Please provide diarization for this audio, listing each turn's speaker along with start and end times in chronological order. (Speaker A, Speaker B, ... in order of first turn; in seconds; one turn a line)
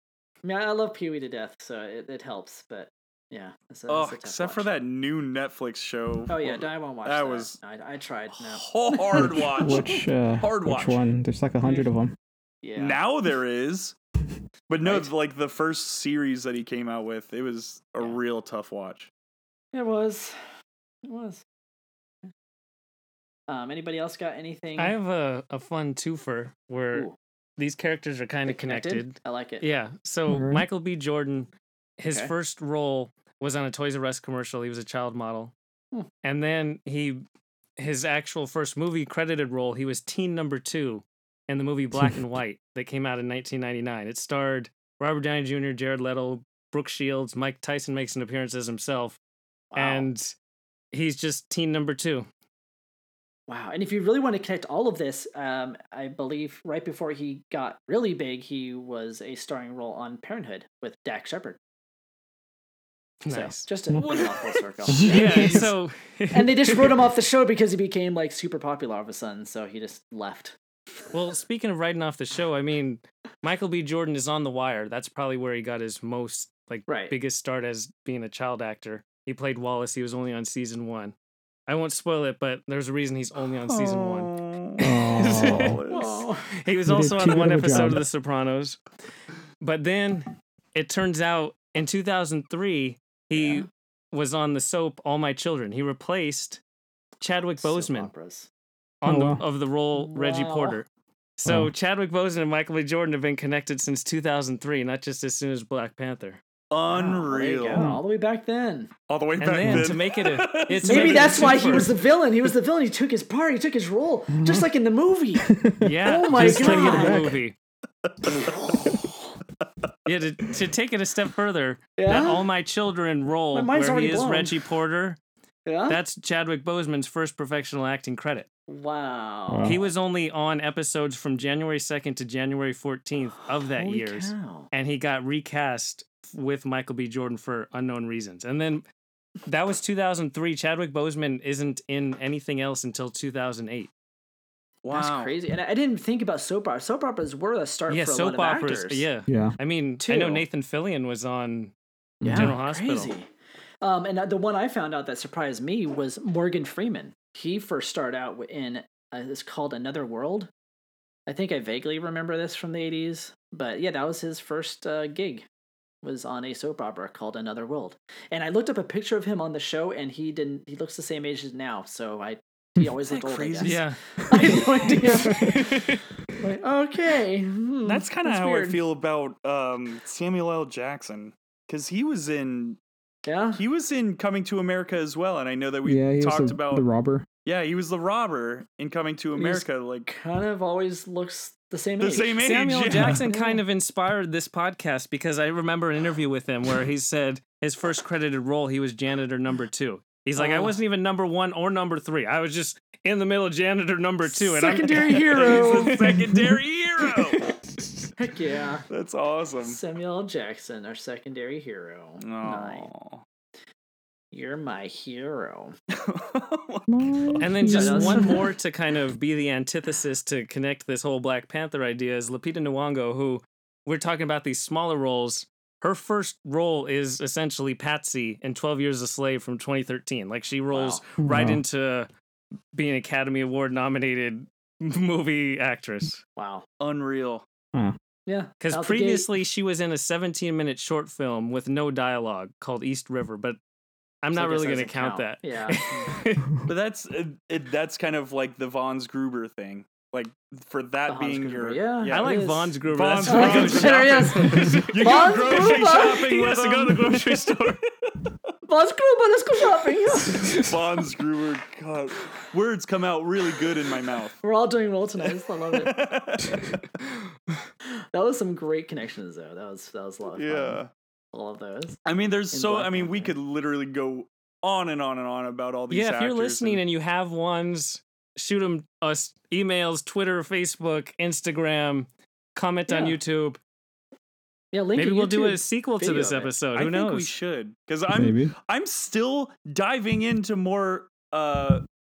Speaker A: 0.4-4.7
Speaker B: 3.9-7.6
Speaker A: 6.3-10.0
Speaker B: 8.3-11.1
Speaker C: 9.2-12.1
Speaker A: 11.6-11.9
Speaker A: 12.6-13.0
Speaker B: 12.8-14.0
Speaker B: 14.7-19.1
Speaker A: 14.8-15.1
Speaker A: 19.7-20.4
Speaker A: 21.0-21.4
Speaker A: 23.5-25.0
Speaker D: 24.8-35.5
Speaker A: 28.5-29.6
Speaker C: 30.3-30.7
Speaker D: 36.2-37.2
Speaker D: 37.8-49.2
Speaker A: 49.7-50.1
Speaker D: 49.8-50.3
Speaker D: 50.9-52.3
Speaker A: 53.5-61.6
Speaker D: 63.2-64.2
Speaker A: 63.3-65.7
Speaker D: 64.9-67.0
Speaker C: 64.9-65.7
Speaker A: 66.3-70.6
Speaker D: 71.1-81.1
Speaker A: 76.9-77.1
Speaker D: 81.7-85.8
Speaker B: 83.7-86.3
Speaker C: 84.8-85.8
Speaker A: 85.9-86.5
Speaker D: 86.5-88.8
Speaker C: 86.9-88.0
Speaker D: 89.6-96.6
Speaker A: 93.3-93.7
Speaker D: 97.2-98.1
Speaker A: 97.6-98.5
Speaker D: 99.0-100.9
Speaker C: 99.0-99.4
Speaker A: 99.9-100.8
Speaker D: 101.4-106.4
Speaker B: 106.7-107.9
Speaker A: 106.9-108.9
Speaker C: 107.8-108.0
Speaker B: 109.1-111.9
Speaker D: 109.4-111.9
Speaker C: 109.6-109.9
Speaker A: 110.8-115.5
Speaker C: 114.3-114.7
Speaker C: 115.5-117.3
Speaker D: 115.8-117.5
Speaker A: 116.0-117.3
Speaker B: 118.0-119.0
Speaker A: 118.2-119.1
Speaker D: 120.1-125.2
Speaker A: 122.0-122.5
Speaker A: 123.5-124.6
Speaker A: 125.7-126.0
Speaker D: 125.9-128.5
Speaker A: 128.7-129.8
Speaker C: 129.5-129.8
Speaker D: 129.6-138.8
Speaker A: 133.6-134.7
Speaker D: 139.5-143.9
Speaker B: 144.8-145.3
Speaker A: 144.9-149.1
Speaker D: 147.9-151.7
Speaker C: 149.3-149.6
Speaker A: 150.0-150.4
Speaker C: 152.2-152.6
Speaker A: 152.2-160.5
Speaker D: 152.3-153.1
Speaker A: 161.3-165.5
Speaker A: 166.0-175.8
Speaker B: 173.1-173.8
Speaker D: 173.6-174.0
Speaker D: 175.2-176.0
Speaker C: 175.3-175.6
Speaker A: 176.4-178.8
Speaker B: 177.8-182.8
Speaker A: 183.3-183.6
Speaker B: 183.6-186.8
Speaker C: 185.8-187.3
Speaker B: 187.4-190.1
Speaker A: 189.3-192.4
Speaker B: 192.0-193.2
Speaker D: 192.4-206.4
Speaker A: 193.3-193.6
Speaker A: 200.4-200.8
Speaker A: 204.2-206.0
Speaker B: 205.3-207.5
Speaker A: 208.2-208.9
Speaker B: 208.9-209.8
Speaker A: 209.6-212.9
Speaker B: 212.2-213.2
Speaker A: 214.3-215.8
Speaker B: 215.9-217.5
Speaker C: 216.9-218.3
Speaker D: 217.4-232.1
Speaker A: 217.7-218.4
Speaker A: 230.7-231.0
Speaker C: 231.2-231.6
Speaker D: 232.7-236.2
Speaker A: 236.4-236.7
Speaker B: 236.8-237.4
Speaker A: 238.3-239.3
Speaker D: 238.6-243.6
Speaker D: 244.2-246.5
Speaker A: 244.3-246.1
Speaker B: 246.7-252.3
Speaker A: 251.1-256.2
Speaker D: 252.1-257.8
Speaker B: 252.8-258.3
Speaker A: 258.7-260.5
Speaker D: 260.2-260.7
Speaker B: 260.4-264.4
Speaker A: 264.4-265.9
Speaker B: 265.3-266.8
Speaker A: 268.1-270.8
Speaker B: 270.4-270.9
Speaker A: 271.3-273.4
Speaker B: 272.1-276.8
Speaker D: 275.9-283.6
Speaker A: 282.9-283.2
Speaker A: 284.7-286.5
Speaker D: 285.0-287.4
Speaker B: 286.7-291.8
Speaker C: 288.1-288.5